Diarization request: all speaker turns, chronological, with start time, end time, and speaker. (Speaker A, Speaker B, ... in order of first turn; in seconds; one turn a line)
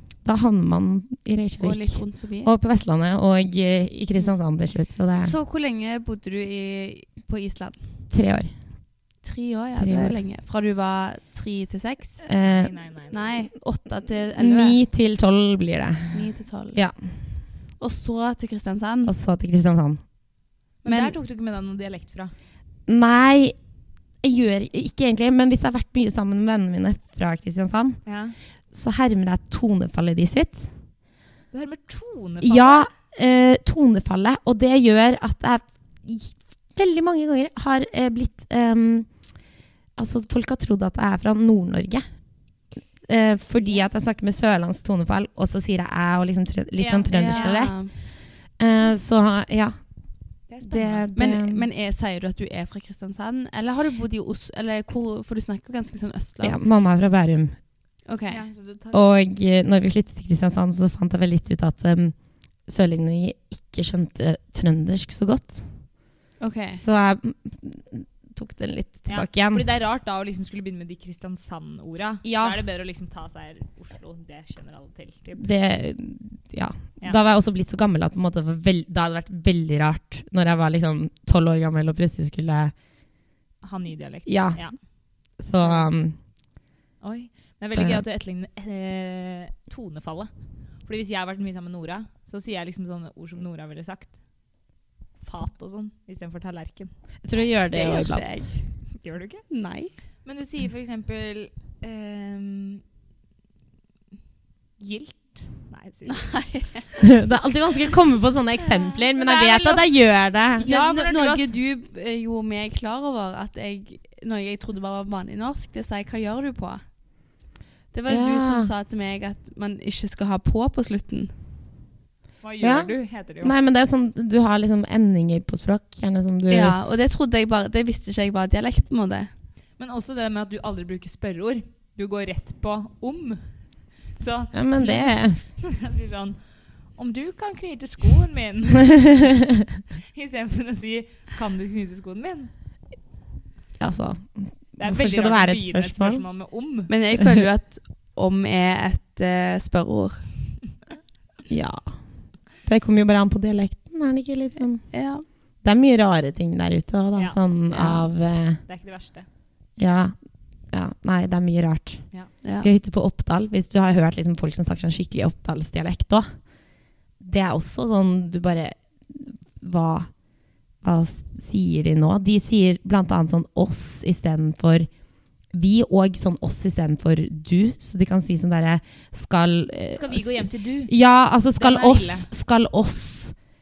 Speaker A: 0.2-5.3
Speaker B: 1.6-2.5
Speaker B: 5.2-7.8
Speaker A: 8.1-8.5
Speaker B: 9.2-12.2
Speaker A: 9.8-10.2
Speaker A: 12.2-12.7
Speaker C: 12.4-13.2
Speaker B: 13.1-14.8
Speaker A: 14.3-17.0
Speaker B: 16.1-16.8
Speaker B: 17.8-19.1
Speaker A: 19.1-20.0
Speaker C: 20.8-22.3
Speaker B: 20.9-21.1
Speaker A: 22.9-23.6
Speaker A: 24.2-28.0
Speaker C: 28.1-28.4
Speaker A: 28.7-30.7
Speaker C: 31.5-32.9
Speaker A: 32.4-39.1
Speaker A: 40.0-42.0
Speaker A: 43.0-47.8
Speaker C: 46.8-47.6
Speaker B: 47.1-47.9
Speaker A: 48.6-49.8
Speaker C: 50.5-51.1
Speaker A: 50.6-51.7
Speaker B: 51.1-56.9
Speaker A: 56.4-57.6
Speaker B: 58.1-58.4
Speaker C: 58.3-59.0
Speaker A: 58.9-65.9
Speaker B: 66.4-66.8
Speaker A: 66.7-69.7
Speaker C: 69.1-75.5
Speaker A: 72.2-72.6
Speaker A: 75.4-82.7
Speaker C: 83.6-84.8
Speaker A: 84.3-84.7
Speaker C: 85.3-85.9
Speaker A: 85.4-86.2
Speaker C: 87.0-94.2
Speaker A: 87.8-88.0
Speaker C: 95.2-96.9
Speaker A: 97.2-98.5
Speaker B: 97.7-98.7
Speaker C: 99.0-99.5
Speaker B: 99.5-99.9
Speaker C: 100.2-102.8
Speaker C: 104.8-106.2
Speaker B: 106.1-107.1
Speaker A: 107.1-110.7
Speaker C: 108.6-109.9
Speaker C: 110.6-111.5
Speaker B: 110.6-116.8
Speaker B: 117.9-121.3
Speaker A: 118.1-118.7
Speaker C: 122.4-123.5
Speaker A: 122.6-126.8
Speaker B: 126.5-129.3
Speaker C: 129.8-133.6
Speaker C: 134.2-136.4
Speaker A: 134.5-135.4
Speaker C: 136.9-139.2
Speaker C: 140.1-142.5
Speaker A: 143.8-146.2
Speaker C: 144.8-146.9
Speaker B: 146.9-150.3
Speaker A: 151.5-152.0
Speaker A: 152.6-154.9
Speaker B: 154.9-155.2
Speaker A: 155.6-158.6
Speaker C: 157.2-158.1
Speaker C: 158.6-159.3
Speaker A: 159.8-160.2
Speaker A: 160.7-166.3
Speaker B: 162.4-162.7
Speaker A: 167.2-170.1
Speaker A: 170.8-174.9
Speaker A: 175.5-183.4
Speaker C: 179.9-180.9
Speaker C: 181.6-182.3